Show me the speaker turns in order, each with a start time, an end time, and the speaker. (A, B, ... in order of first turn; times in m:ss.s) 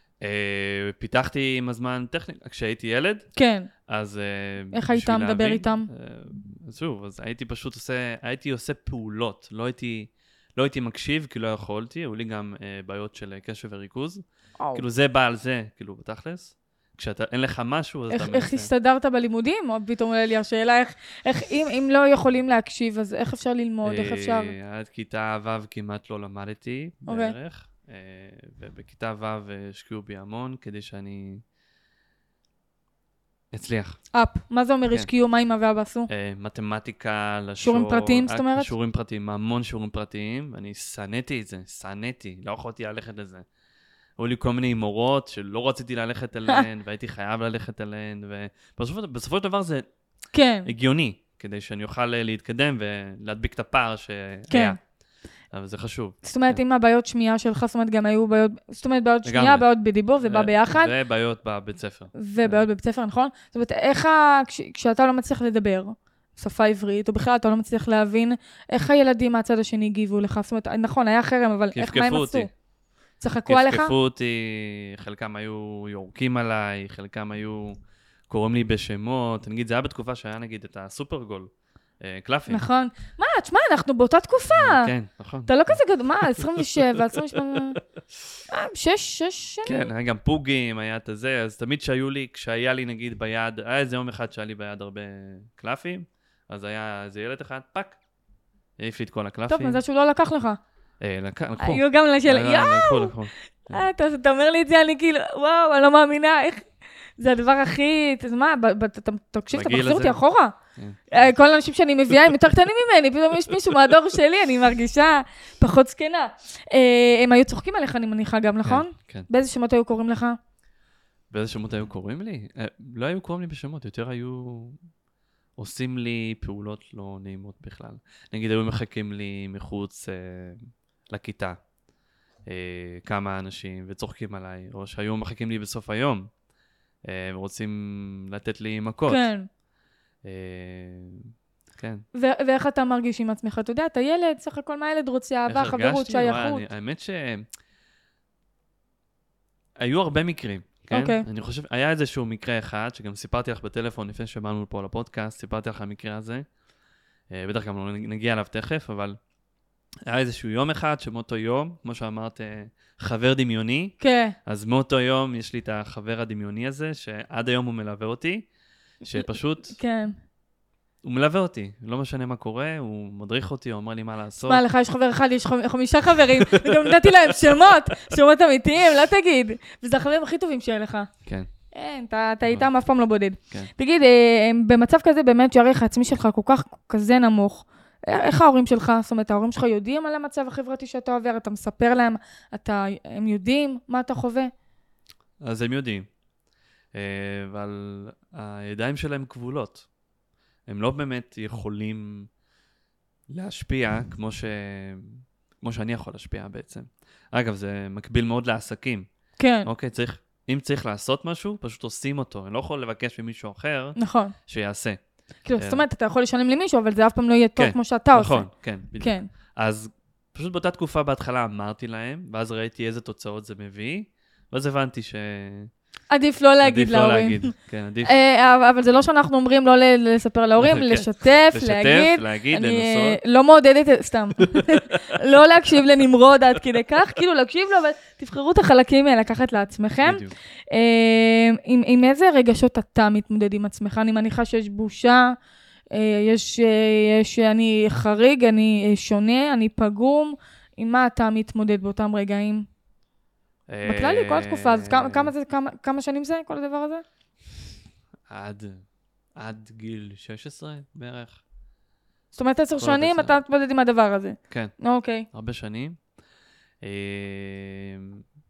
0:00.2-0:03.3 A
0:03.4-0:03.7 B
0:03.9-0:14.2 A
0:04.7-0:05.9 B
0:14.6-0:14.8 B
0:14.7-0:18.7 A
0:18.1-0:24.5 B
0:23.8-0:31.4 A
0:27.1-0:27.4 B
0:33.5-0:34.0 A
0:34.1-0:36.1 B
0:36.1-0:43.4 A
0:37.6-0:38.7 B
0:44.2-0:49.9 A
0:50.3-0:50.7 B
0:50.6-0:54.8 A
0:54.5-0:54.8 B
0:55.5-0:56.6 A
0:56.2-1:00.9 B
0:59.2-0:59.6 A
1:00.2-1:02.6 A
1:02.1-1:12.5 B
1:11.7-1:12.5 A
1:13.2-1:13.9 B
1:13.5-1:17.8 A
1:18.3-1:22.6 A
1:22.5-1:24.9 B
1:24.5-1:25.8 A
1:25.5-1:27.8 B
1:26.4-1:27.4 A
1:28.5-1:29.9 B
1:29.6-1:38.0 A
1:38.8-1:39.8 A
1:39.5-1:40.6 B
1:41.0-1:43.8 A
1:41.6-1:43.2 B
1:43.7-1:46.6 B
1:47.2-1:50.5 B
1:49.5-1:50.2 A
1:51.1-2:00.4 B
1:58.6-1:59.3 A
2:01.3-2:04.8 A
2:05.6-2:11.6 A
2:12.5-2:16.3 A
2:17.0-2:19.2 A
2:19.1-2:19.5 B
2:20.2-2:22.0 A
2:22.1-2:26.6 B
2:25.5-2:27.4 A
2:29.8-2:36.4 A
2:30.9-2:31.2 B
2:37.3-2:39.2 A
2:40.0-2:48.4 A
2:44.0-2:44.3 B
2:49.0-2:49.8 A
2:49.1-2:50.1 B
2:51.0-2:54.6 A
2:54.5-3:01.1 B
2:56.3-2:57.8 A
3:01.7-3:14.5 B
3:15.4-3:16.1 A
3:16.9-3:19.8 A
3:20.7-3:22.3 A
3:23.3-3:29.1 A
3:29.4-3:29.7 B
3:29.6-3:35.0 A
3:34.0-3:34.3 B
3:35.4-3:39.3 B
3:37.6-3:45.7 A
3:46.1-3:47.5 B
3:46.6-3:48.1 A
3:48.0-4:05.3 B
3:50.6-3:53.2 A
3:54.5-3:55.0 A
4:00.0-4:00.3 A
4:05.9-4:12.6 B
4:13.7-4:15.3 A
4:13.8-4:17.0 B
4:18.3-4:18.8 A
4:19.4-4:21.4 A
4:22.3-4:25.2 B
4:22.8-4:23.4 A
4:24.5-4:24.7 A
4:25.3-4:26.0 A
4:26.8-4:28.2 A